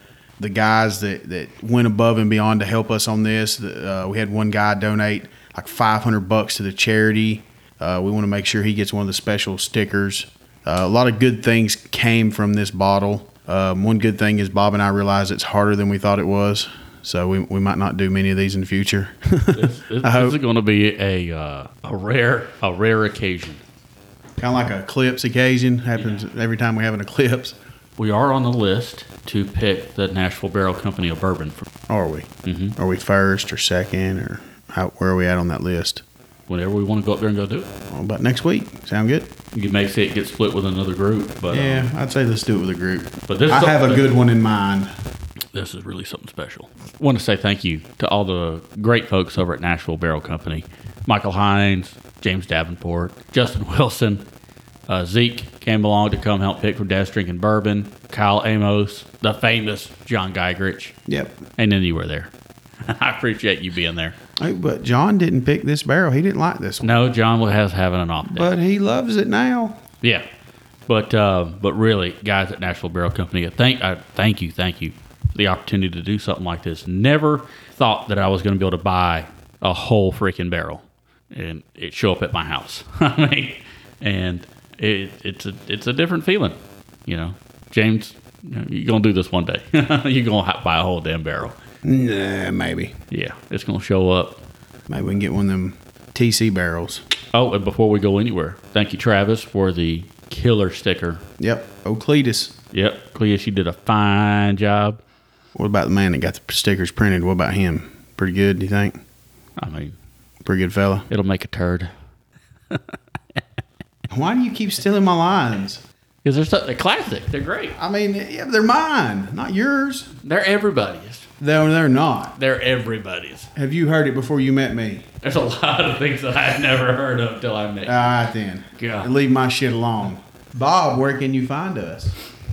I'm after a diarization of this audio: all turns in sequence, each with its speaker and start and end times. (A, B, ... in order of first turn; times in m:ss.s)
0:00.4-0:20.4 A
0:19.5-0:23.6 B
0:24.4-0:27.6 A
0:26.0-0:26.2 B
0:28.0-0:31.6 B
0:31.9-0:36.0 A
0:32.4-0:32.8 B
0:36.5-0:37.7 B
0:37.9-0:39.3 A
0:39.5-0:41.9 B
0:41.5-0:44.9 A
0:43.3-0:44.1 B
0:45.5-0:54.2 B
0:54.9-1:00.9 B
1:01.1-1:01.4 A
1:01.6-1:02.3 B
1:02.8-1:04.2 B
1:04.4-1:07.0 A
1:06.8-1:08.5 B
1:08.2-1:09.8 A
1:10.9-1:31.6 B
1:31.8-1:32.9 A
1:33.1-1:34.4 B
1:34.9-1:37.0 A
1:37.3-1:41.2 B
1:41.4-1:42.6 A
1:42.7-1:45.0 B
1:45.5-1:49.0 A
1:49.6-1:50.0 B
1:50.4-1:51.1 A
1:51.1-1:51.9 B
1:54.1-1:55.8 A
1:56.2-1:57.8 B
1:57.8-2:00.1 A
2:00.2-2:01.3 B
2:01.4-2:02.4 A
2:02.4-2:03.5 B
2:03.5-2:05.1 A
2:05.2-2:08.1 B
2:07.8-2:12.2 A
2:08.8-2:09.1 B